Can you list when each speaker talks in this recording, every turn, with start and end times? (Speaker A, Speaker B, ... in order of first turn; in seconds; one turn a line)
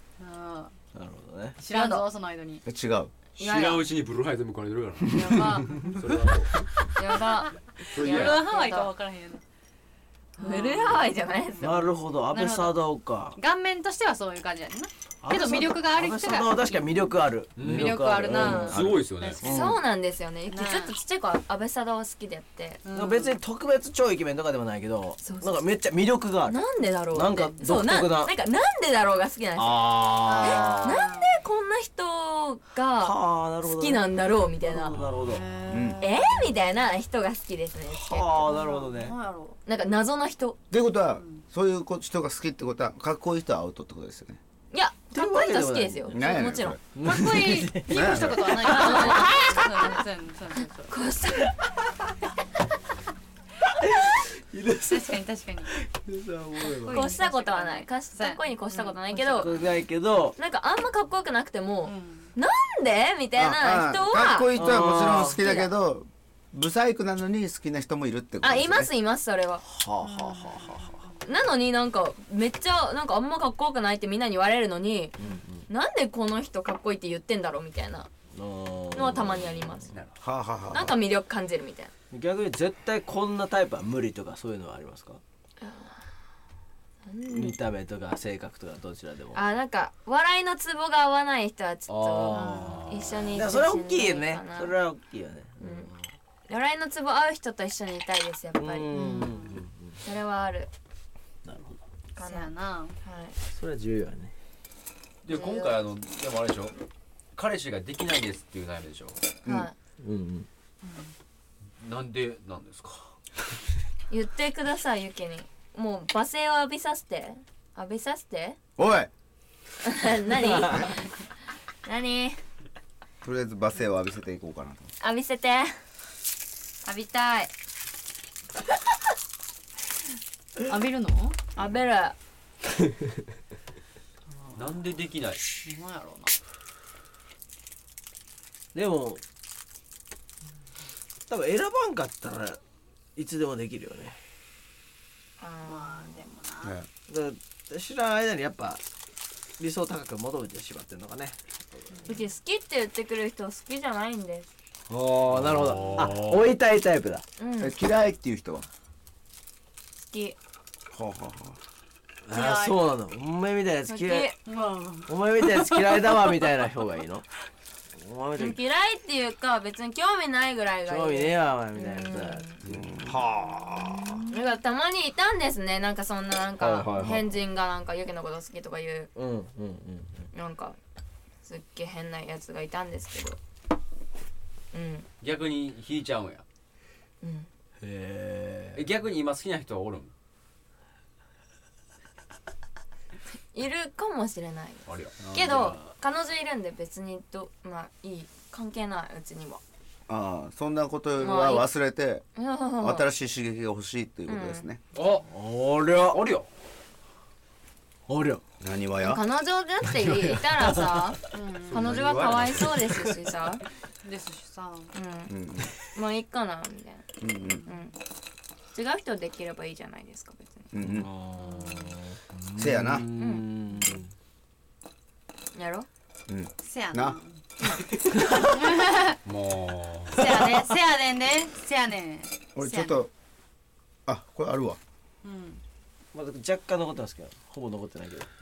Speaker A: 0.2-0.7
Speaker B: 0.9-1.6
Speaker A: 1.6-2.6
Speaker C: 1.7-2.1
Speaker D: 2.6-3.1
Speaker C: 3.4-3.9
Speaker E: 3.4-6.5
Speaker A: 5.1-6.3
Speaker C: 7.0-8.9
Speaker A: 7.8-9.4
Speaker E: 7.9-8.5
Speaker C: 10.4-11.8
Speaker A: 10.4-12.8
Speaker B: 11.6-13.4
Speaker A: 13.3-17.1
Speaker B: 15.2-19.8
Speaker E: 17.6-19.4
Speaker A: 17.6-19.8
Speaker C: 19.4-22.8
Speaker A: 20.5-21.0
Speaker A: 22.8-23.4
Speaker B: 22.9-26.6
Speaker C: 25.2-25.6
Speaker C: 26.5-35.0
Speaker B: 27.1-28.3
Speaker B: 29.6-31.0
Speaker A: 30.2-31.4
Speaker B: 33.0-34.0
Speaker B: 34.6-35.5
Speaker A: 35.2-36.6
Speaker D: 35.7-36.0
Speaker C: 36.0-38.5
Speaker B: 37.9-39.2
Speaker A: 38.5-39.6
Speaker C: 39.7-40.6
Speaker D: 40.7-44.4
Speaker A: 41.1-41.4
Speaker C: 44.7-46.8
Speaker B: 45.1-46.2
Speaker D: 46.1-46.8
Speaker B: 47.0-49.4
Speaker A: 47.0-50.9
Speaker D: 47.9-48.7
Speaker C: 48.7-50.0
Speaker C: 50.9-51.5
Speaker B: 53.8-57.1
Speaker A: 54.9-55.7
Speaker A: 56.6-59.6
Speaker C: 56.9-59.5
Speaker B: 59.3-60.4
Speaker C: 60.4-65.7
Speaker A: 61.8-62.3
Speaker D: 63.4-68.9
Speaker B: 64.5-65.4
Speaker C: 68.4-69.6
Speaker B: 69.7-71.0
Speaker A: 70.0-71.2
Speaker C: 71.2-75.2
Speaker B: 75.2-75.7
Speaker C: 75.7-78.1
Speaker B: 78.3-79.8
Speaker C: 78.9-79.9
Speaker D: 80.2-81.0
Speaker C: 80.7-81.9
Speaker B: 82.1-85.2
Speaker C: 85.6-86.0
Speaker C: 87.0-87.6
Speaker B: 87.3-89.4
Speaker C: 89.3-94.7
Speaker B: 91.9-96.1
Speaker A: 92.3-92.9
Speaker C: 95.6-95.9
Speaker C: 96.5-100.7
Speaker B: 98.6-100.0
Speaker A: 98.9-99.6
Speaker B: 101.5-101.8
Speaker C: 102.2-103.4
Speaker A: 102.2-103.0
Speaker B: 103.5-104.3
Speaker E: 105.2-106.7
Speaker C: 105.3-105.8
Speaker E: 107.3-109.2
Speaker C: 109.5-109.7
Speaker B: 110.0-110.5
Speaker A: 110.8-111.1
Speaker E: 111.8-113.1
Speaker C: 114.1-118.6
Speaker D: 118.8-119.1
Speaker C: 119.8-121.1
Speaker C: 121.8-122.4
Speaker D: 123.2-124.9
Speaker C: 125.0-125.8
Speaker C: 126.8-127.5
Speaker A: 130.7-131.4
Speaker C: 131.6-132.2
Speaker A: 134.3-134.7
Speaker E: 134.6-135.4
Speaker A: 135.6-136.3
Speaker B: 138.7-139.2
Speaker B: 141.3-142.6
Speaker B: 143.2-144.2
Speaker C: 145.4-146.3
Speaker A: 145.6-146.8
Speaker B: 147.1-148.8
Speaker B: 149.6-151.9
Speaker A: 151.9-152.2
Speaker C: 152.1-154.5
Speaker B: 154.9-157.2
Speaker E: 155.3-156.5
Speaker C: 157.4-157.7
Speaker D: 157.6-158.7
Speaker C: 160.0-160.4
Speaker D: 160.9-161.6
Speaker B: 162.3-164.3
Speaker A: 162.3-162.8
Speaker C: 163.9-164.3
Speaker A: 164.4-166.2
Speaker B: 165.1-167.3
Speaker B: 167.9-168.6
Speaker C: 168.4-172.6
Speaker B: 170.9-174.2
Speaker D: 172.7-173.3
Speaker A: 174.0-174.3
Speaker C: 174.3-179.1
Speaker B: 176.6-177.3
Speaker B: 179.2-180.3
Speaker C: 180.3-180.8
Speaker C: 181.4-183.4
Speaker C: 184.7-185.1
Speaker E: 185.2-186.4
Speaker C: 187.2-187.5
Speaker B: 187.8-188.9
Speaker E: 188.7-190.1
Speaker C: 193.5-199.6
Speaker E: 194.9-195.2
Speaker B: 195.2-195.8
Speaker D: 200.1-202.3
Speaker C: 201.2-201.7
Speaker C: 202.3-203.1
Speaker D: 202.8-204.8
Speaker C: 204.3-204.7
Speaker E: 204.9-205.3
Speaker B: 205.3-206.2
Speaker E: 206.1-206.5
Speaker B: 208.1-208.4
Speaker D: 208.6-209.2
Speaker C: 209.0-211.2
Speaker B: 209.8-211.1
Speaker A: 211.3-211.9
Speaker E: 211.7-212.8
Speaker C: 211.7-213.6
Speaker B: 212.5-213.2
Speaker A: 214.0-214.9
Speaker C: 214.9-215.3
Speaker D: 215.3-215.7
Speaker C: 215.9-217.1
Speaker D: 217.2-217.7
Speaker C: 217.7-217.9
Speaker C: 218.7-220.7
Speaker D: 220.7-221.1
Speaker B: 220.8-224.1
Speaker A: 221.4-221.8
Speaker D: 222.6-223.1
Speaker C: 223.2-223.5
Speaker C: 225.5-225.9
Speaker D: 226.3-227.2
Speaker A: 226.6-227.4
Speaker A: 228.4-229.2
Speaker E: 229.2-230.3
Speaker A: 230.1-233.0
Speaker B: 230.2-230.5
Speaker D: 232.6-233.1
Speaker D: 234.1-234.8
Speaker A: 235.2-235.6
Speaker B: 236.1-238.3